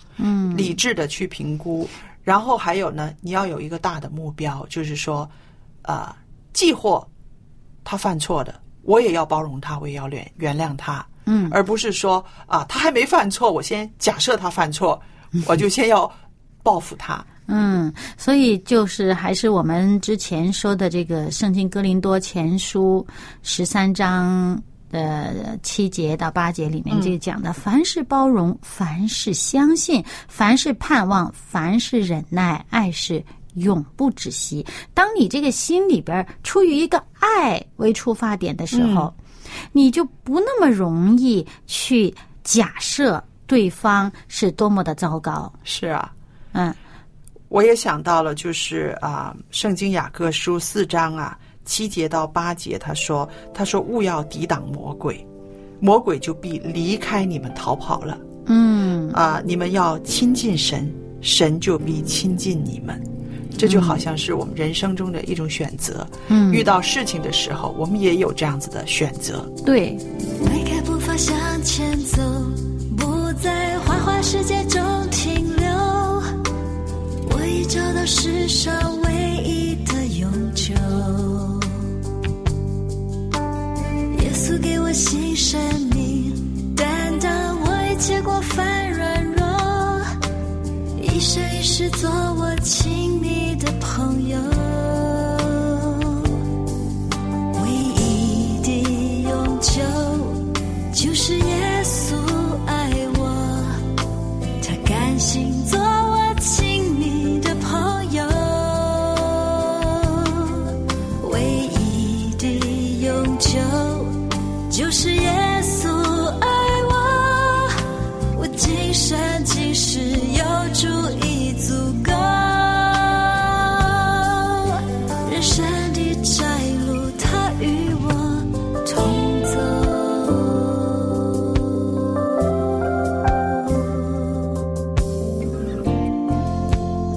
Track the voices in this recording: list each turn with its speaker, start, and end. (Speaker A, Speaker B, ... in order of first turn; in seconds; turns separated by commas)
Speaker A: 0.2-0.8, Speaker B: 0.5-5.3, Speaker B: 5.8-7.1, Speaker B: 7.8-17.3, Speaker A: 11.2-11.6, Speaker A: 17.5-39.1, Speaker B: 26.9-27.1, Speaker B: 38.7-39.1, Speaker A: 39.7-45.5, Speaker B: 45.6-46.1, Speaker B: 47.5-55.2, Speaker B: 55.8-58.2, Speaker A: 58.5-59.2, Speaker B: 59.1-63.0, Speaker B: 63.5-69.5, Speaker A: 63.6-64.0, Speaker A: 66.3-66.7, Speaker A: 69.6-70.0, Speaker C: 70.4-76.3, Speaker C: 77.2-81.9, Speaker C: 84.1-90.1, Speaker C: 91.0-96.4, Speaker C: 97.5-103.8, Speaker C: 104.6-114.2, Speaker C: 114.7-131.6, Speaker C: 133.2-134.4